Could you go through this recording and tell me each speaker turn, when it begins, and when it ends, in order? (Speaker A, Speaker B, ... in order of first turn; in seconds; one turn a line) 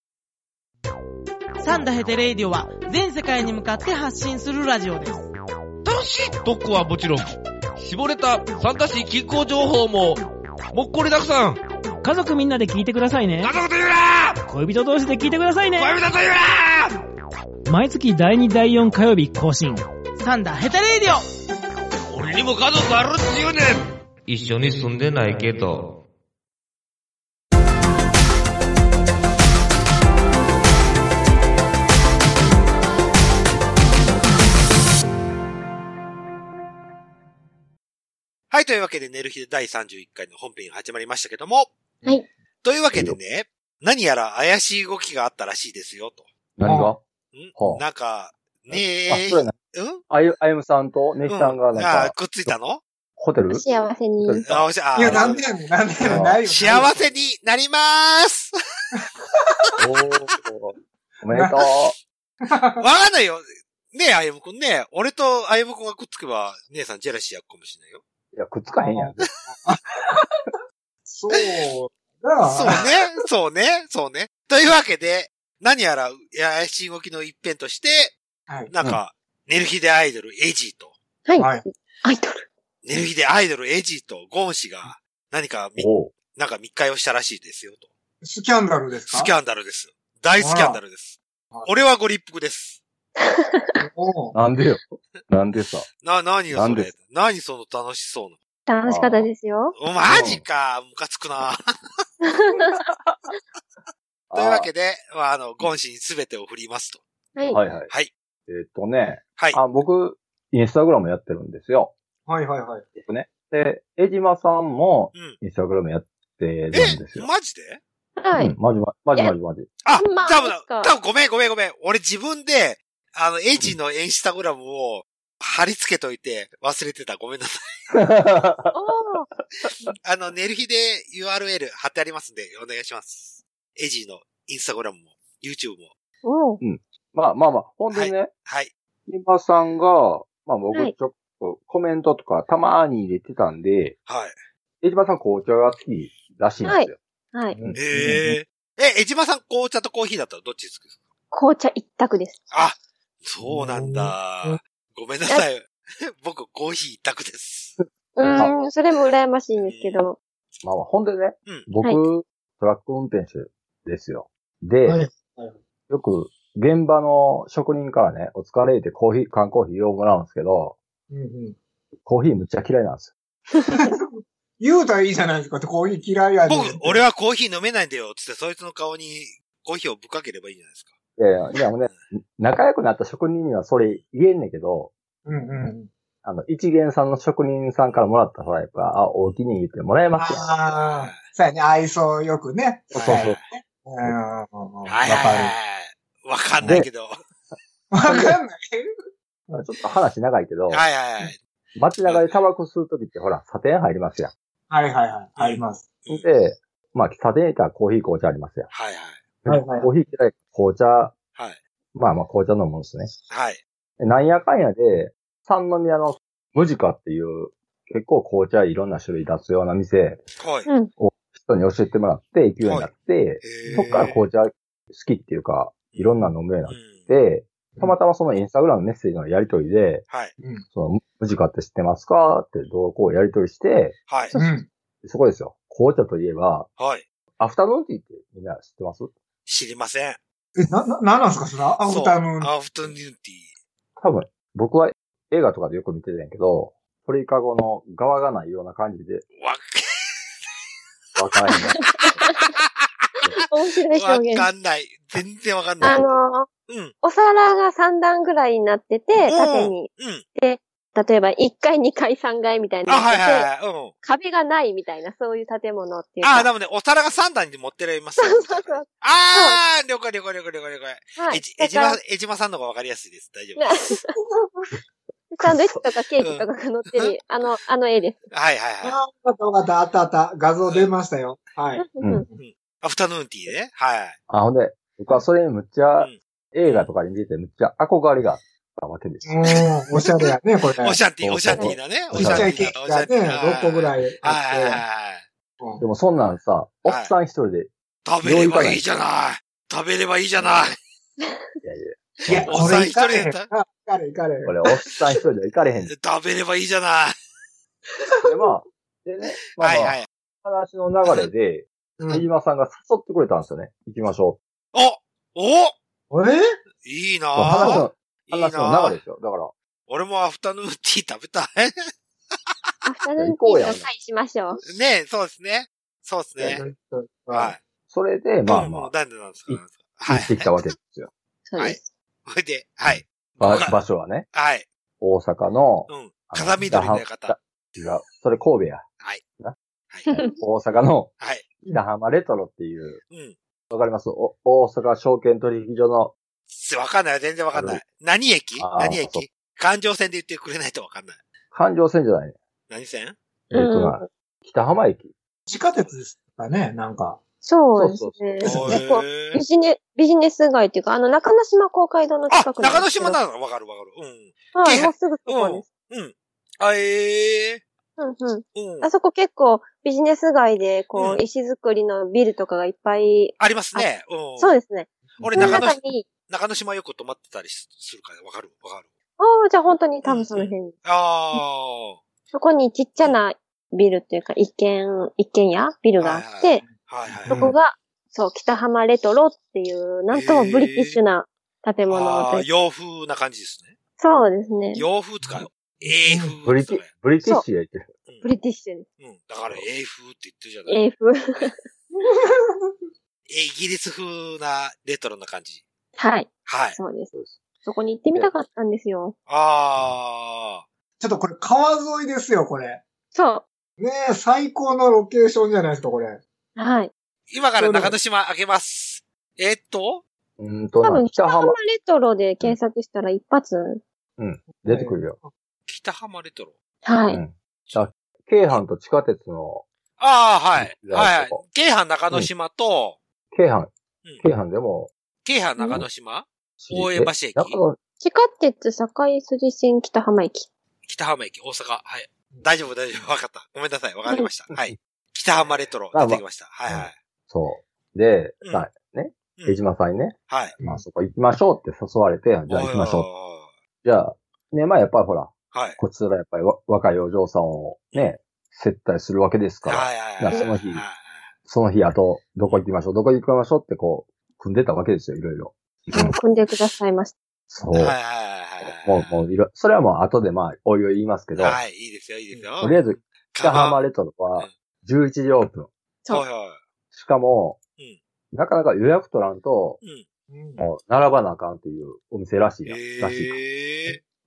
Speaker A: 1.6-5.3
Speaker B: 5.8-11.6
Speaker C: 12.0-13.5
Speaker B: 13.4-14.4
Speaker C: 14.5-15.9
Speaker B: 15.8-17.0
Speaker C: 17.6-19.8
Speaker A: 20.2-21.2
Speaker B: 22.1-26.0
Speaker D: 38.5-41.7
Speaker D: 42.6-46.3
Speaker E: 46.6-47.0
Speaker F: 46.6-46.9
Speaker D: 47.3-50.0
Speaker E: 47.5-47.8
Speaker E: 48.7-49.5
Speaker E: 50.1-52.5
Speaker D: 51.3-52.8
Speaker E: 53.2-53.6
Speaker G: 53.5-54.4
Speaker E: 54.2-55.3
Speaker D: 54.5-55.5
Speaker F: 54.9-57.1
Speaker E: 56.0-56.4
Speaker D: 56.0-58.5
Speaker F: 59.0-59.7
Speaker E: 59.8-62.0
Speaker F: 61.3-61.6
Speaker F: 62.4-62.8
Speaker D: 62.8-68.0
Speaker E: 68.3-69.3
Speaker F: 68.7-70.5
Speaker F: 71.0-73.0
Speaker D: 72.5-78.2
Speaker D: 78.7-80.9
Speaker G: 81.2-82.5
Speaker F: 81.4-81.6
Speaker D: 82.8-87.9
Speaker E: 85.8-86.1
Speaker F: 88.2-89.3
Speaker D: 89.1-92.8
Speaker F: 90.4-90.8
Speaker G: 93.2-93.7
Speaker F: 93.8-94.3
Speaker E: 94.3-95.9
Speaker D: 96.0-98.3
Speaker E: 96.5-96.9
Speaker G: 98.7-99.7
Speaker E: 98.8-99.3
Speaker D: 99.8-101.7
Speaker E: 100.0-100.4
Speaker G: 102.2-102.8
Speaker E: 104.3-104.7
Speaker D: 104.3-107.0
Speaker E: 107.5-107.9
Speaker E: 108.5-111.9
Speaker F: 112.3-112.9
Speaker E: 113.0-117.3
Speaker D: 116.7-117.8
Speaker G: 118.2-118.5
Speaker E: 118.3-119.7
Speaker D: 119.8-127.6
Speaker G: 120.0-120.9
Speaker E: 127.9-128.7
Speaker G: 128.7-129.3
Speaker D: 130.0-135.9
Speaker G: 136.2-136.6
Speaker E: 136.6-138.3
Speaker D: 137.9-138.7
Speaker E: 139.1-143.9
Speaker D: 144.1-144.3
Speaker E: 144.8-147.0
Speaker G: 146.6-147.5
Speaker E: 147.5-148.3
Speaker D: 147.7-151.0
Speaker F: 147.9-148.2
Speaker G: 151.3-152.4
Speaker D: 152.5-157.8
Speaker F: 153.4-154.6
Speaker G: 158.2-160.2
Speaker D: 159.6-160.0
Speaker E: 160.6-165.0
Speaker F: 164.8-165.6
Speaker E: 165.9-170.8
Speaker F: 171.1-171.6
Speaker E: 172.0-173.1
Speaker F: 173.7-174.1
Speaker F: 174.6-177.0
Speaker D: 176.5-180.9
Speaker E: 181.2-184.9
Speaker F: 185.2-185.9
Speaker E: 186.2-190.4
Speaker F: 190.2-195.5
Speaker D: 190.6-191.2
Speaker E: 192.9-193.4
Speaker D: 192.9-193.4
Speaker D: 194.8-197.2
Speaker E: 196.6-196.9
Speaker F: 197.9-198.9
Speaker E: 198.1-198.4
Speaker E: 199.5-200.8
Speaker D: 200.7-201.4
Speaker E: 201.7-204.3
Speaker D: 202.1-202.3
Speaker F: 204.7-205.8
Speaker D: 205.4-206.2
Speaker E: 206.1-208.7
Speaker D: 208.7-209.2
Speaker E: 209.4-211.2
Speaker F: 209.5-209.9
Speaker E: 211.9-213.1
Speaker D: 213.3-213.6
Speaker E: 214.0-220.2
Speaker D: 220.4-220.7
Speaker E: 221.0-230.1
Speaker D: 222.6-222.9
Speaker D: 223.4-224.2
Speaker F: 223.6-224.1
Speaker D: 226.7-227.1
Speaker E: 230.7-234.0
Speaker D: 234.1-234.3
Speaker G: 234.3-234.6
Speaker F: 234.3-234.7
Speaker E: 235.0-236.7
Speaker D: 236.8-237.0
Speaker E: 237.4-239.1
Speaker D: 239.5-240.2
Speaker F: 240.6-242.5
Speaker D: 241.8-243.5
Speaker E: 244.0-249.2
Speaker D: 249.4-250.2
Speaker E: 251.2-252.1
Speaker D: 253.3-256.1
Speaker G: 253.5-254.5
Speaker E: 255.8-256.1
Speaker G: 255.8-256.5
Speaker D: 256.7-256.9
Speaker G: 257.0-263.5
Speaker D: 259.2-260.2
Speaker D: 262.9-263.9
Speaker G: 264.0-266.5
Speaker D: 266.2-273.7
Speaker G: 268.2-269.6
Speaker G: 271.2-272.0
Speaker G: 273.6-274.1
Speaker G: 275.3-278.2
Speaker E: 275.4-275.8
Speaker D: 276.2-277.1
Speaker D: 278.3-278.9
Speaker F: 278.8-282.4
Speaker G: 281.8-282.2
Speaker E: 282.0-282.2
Speaker D: 282.4-284.2
Speaker E: 284.3-289.4
Speaker D: 286.0-286.9
Speaker F: 289.2-291.0
Speaker D: 290.8-295.2
Speaker E: 291.2-292.6
Speaker F: 292.1-294.8
Speaker E: 295.8-298.8
Speaker D: 296.9-297.1
Speaker D: 298.0-300.8
Speaker E: 301.6-302.7
Speaker F: 302.3-304.6
Speaker D: 302.3-303.5
Speaker E: 304.4-305.9
Speaker D: 305.9-307.1
Speaker F: 308.0-308.5
Speaker E: 308.2-314.4
Speaker D: 309.6-310.1
Speaker F: 312.0-312.2
Speaker D: 314.7-315.7
Speaker F: 316.1-316.6
Speaker D: 316.8-319.0
Speaker E: 317.3-319.5
Speaker D: 319.9-321.7
Speaker G: 322.8-324.6
Speaker E: 323.2-323.9
Speaker D: 324.6-326.6
Speaker F: 326.4-327.5
Speaker D: 327.3-327.6
Speaker E: 327.9-328.9
Speaker D: 328.5-330.5
Speaker E: 329.5-331.1
Speaker G: 331.5-331.8
Speaker D: 331.6-333.8
Speaker E: 332.9-334.3
Speaker D: 334.3-334.6
Speaker E: 335.0-338.8
Speaker D: 335.9-337.3
Speaker G: 340.1-340.3
Speaker E: 340.4-341.1
Speaker E: 341.7-343.0
Speaker D: 343.1-343.4
Speaker E: 343.7-346.1
Speaker D: 346.5-351.2
Speaker E: 347.5-347.8
Speaker E: 348.6-349.2
Speaker E: 351.5-352.3
Speaker D: 352.7-353.1
Speaker E: 353.5-355.1
Speaker G: 353.5-354.1
Speaker F: 355.5-357.2
Speaker G: 357.4-363.2
Speaker E: 357.8-358.8
Speaker D: 358.4-359.4
Speaker D: 362.3-367.6
Speaker G: 364.5-365.7
Speaker G: 368.0-376.1
Speaker D: 368.5-368.9
Speaker D: 370.9-371.2
Speaker D: 373.4-374.6
Speaker D: 375.2-378.9
Speaker F: 375.2-375.6
Speaker G: 379.2-380.7
Speaker D: 380.0-382.0
Speaker G: 382.3-386.6
Speaker D: 386.0-387.4
Speaker F: 387.1-387.5
Speaker G: 387.3-392.4
Speaker D: 390.1-391.0
Speaker D: 391.9-393.7
Speaker G: 394.0-394.8
Speaker D: 394.7-396.9
Speaker F: 395.2-396.3
Speaker E: 396.4-397.9
Speaker G: 398.2-398.9
Speaker D: 399.0-400.8
Speaker G: 400.7-401.5
Speaker F: 401.9-402.7
Speaker D: 403.3-405.6
Speaker G: 406.0-407.1
Speaker D: 406.4-406.8
Speaker G: 407.6-409.1
Speaker D: 409.3-410.6
Speaker F: 411.0-412.8
Speaker G: 413.1-413.4
Speaker F: 413.8-416.2
Speaker G: 416.6-416.9
Speaker D: 417.3-420.0
Speaker F: 417.6-417.9
Speaker E: 420.4-421.6
Speaker G: 420.8-423.8
Speaker E: 424.2-425.2
Speaker F: 424.5-425.3
Speaker D: 425.7-426.5
Speaker G: 426.8-427.2
Speaker E: 427.1-429.6
Speaker D: 430.0-433.0
Speaker E: 430.6-431.4
Speaker E: 433.3-434.9
Speaker D: 435.2-437.6
Speaker E: 436.6-437.8
Speaker G: 438.0-440.5
Speaker D: 440.9-446.9
Speaker E: 445.9-453.1
Speaker D: 450.3-450.5
Speaker D: 452.5-453.5
Speaker E: 453.8-460.8
Speaker D: 455.5-455.8
Speaker D: 459.6-461.3
Speaker E: 461.4-466.1
Speaker G: 465.9-467.1
Speaker E: 467.5-468.0
Speaker D: 467.7-469.3
Speaker E: 468.6-471.6
Speaker D: 471.4-472.8
Speaker E: 472.6-475.7
Speaker D: 473.3-473.8
Speaker D: 476.1-476.6
Speaker E: 476.9-477.6
Speaker E: 478.3-479.8
Speaker F: 480.3-480.6
Speaker E: 480.6-484.0
Speaker D: 482.6-484.0